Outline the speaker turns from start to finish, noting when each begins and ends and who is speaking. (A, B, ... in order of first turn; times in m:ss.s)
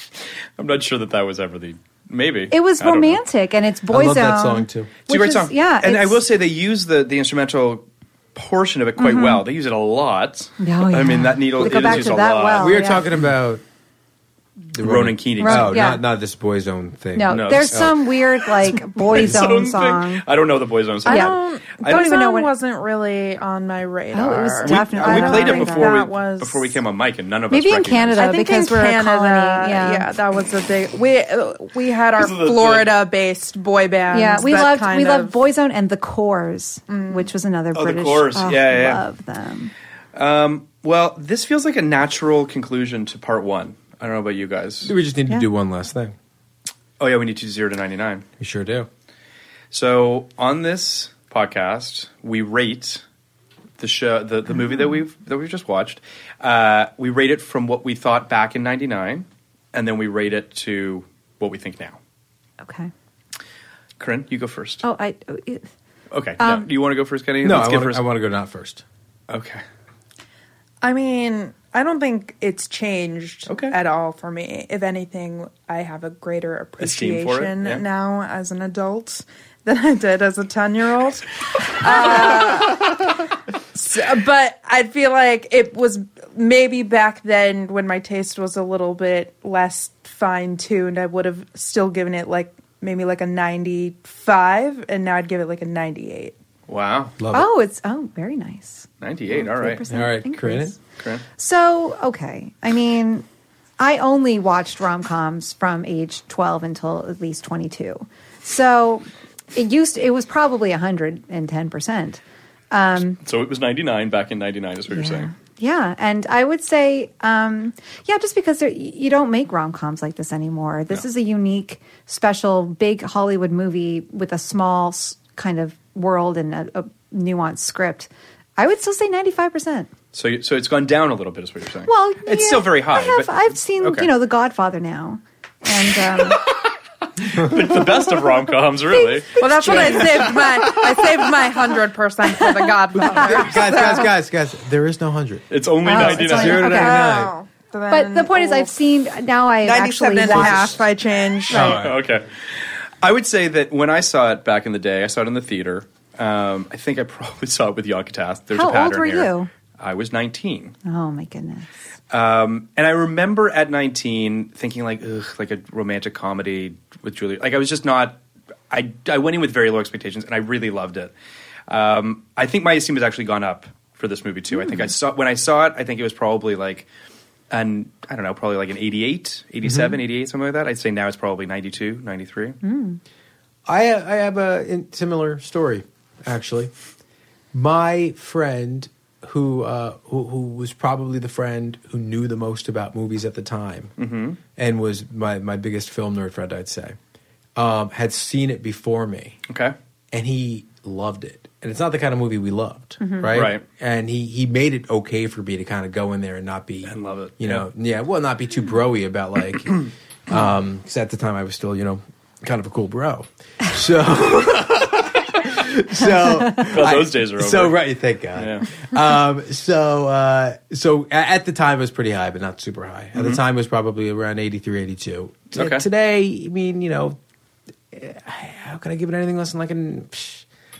0:00.6-0:03.2 A
0:02.5-0:06.2 B
0:03.9-0:04.9 C
0:05.1-0:07.8 A
0:08.3-0:12.9 A
0:09.0-0:09.4 B
0:10.6-0:13.1 B
0:11.8-0:13.6 C
0:14.7-0:17.8 C
0:14.8-0:15.9 A
0:15.4-0:16.0 B
0:17.1-0:20.2 B
0:17.3-0:22.2 A
0:19.1-0:19.4 C
0:21.0-0:26.8 D
0:21.0-0:22.5 B
0:24.1-0:26.0 B
0:24.6-0:28.2 A
0:27.5-0:30.1 B
0:28.2-0:35.4 D
0:32.2-0:32.9 A
0:34.1-0:39.7 B
0:36.9-0:37.3 D
0:37.7-0:39.0 A
0:40.1-0:44.9 A
0:44.8-0:46.1 C
0:47.0-0:48.2 A
0:48.4-0:48.9 C
0:49.7-0:53.0 A
0:53.8-1:02.0 A
0:54.5-0:55.0 B
1:02.6-1:02.9 B
1:04.0-1:04.8 A
1:04.8-1:05.7 B
1:06.1-1:08.0 A
1:06.4-1:06.7 B
1:07.4-1:08.8 C
1:09.3-1:09.6 A
1:10.8-1:36.4 D
1:13.5-1:13.8 A
1:16.8-1:17.8 A
1:36.7-1:37.1 A
1:37.2-1:37.5 C
1:37.3-1:40.8 B
1:39.0-1:39.8 A
1:39.9-1:40.8 C
1:41.4-1:43.2 B
1:43.8-1:53.2 B
1:53.2-1:55.3 A
1:54.9-2:09.9 B
2:10.1-2:14.1 A
2:11.9-2:16.4 B
2:17.2-2:20.0 A
2:19.0-2:20.4 B
2:19.4-2:24.1 D
2:23.1-2:27.3 C
2:25.5-2:26.8 A
2:25.8-2:27.2 B
2:26.4-2:28.7 D
2:27.9-2:30.8 B
2:29.6-2:31.8 D
2:30.3-2:30.8 C
2:31.5-2:32.0 C
2:31.5-2:32.2 A
2:33.0-2:40.7 A
2:38.5-2:39.5 B
2:40.8-2:41.7 B
2:42.1-2:48.2 A
2:48.7-2:51.1 A
2:51.7-2:56.9 A
2:54.5-2:54.9 B
2:57.5-3:02.6 A
2:59.6-3:00.0 C
3:02.6-3:03.0 B
3:03.6-3:06.7 C
3:07.5-3:13.9 C
3:14.0-3:14.4 A
3:14.6-3:17.0 C
3:17.6-3:19.4 C
3:19.5-3:19.7 A
3:20.1-3:47.2 C
3:23.0-3:23.3 B
3:23.3-3:23.6 A
3:26.8-3:27.6 A
3:36.6-3:37.8 A
3:38.4-3:38.7 A
3:45.5-3:45.8 A
3:47.9-3:50.4 C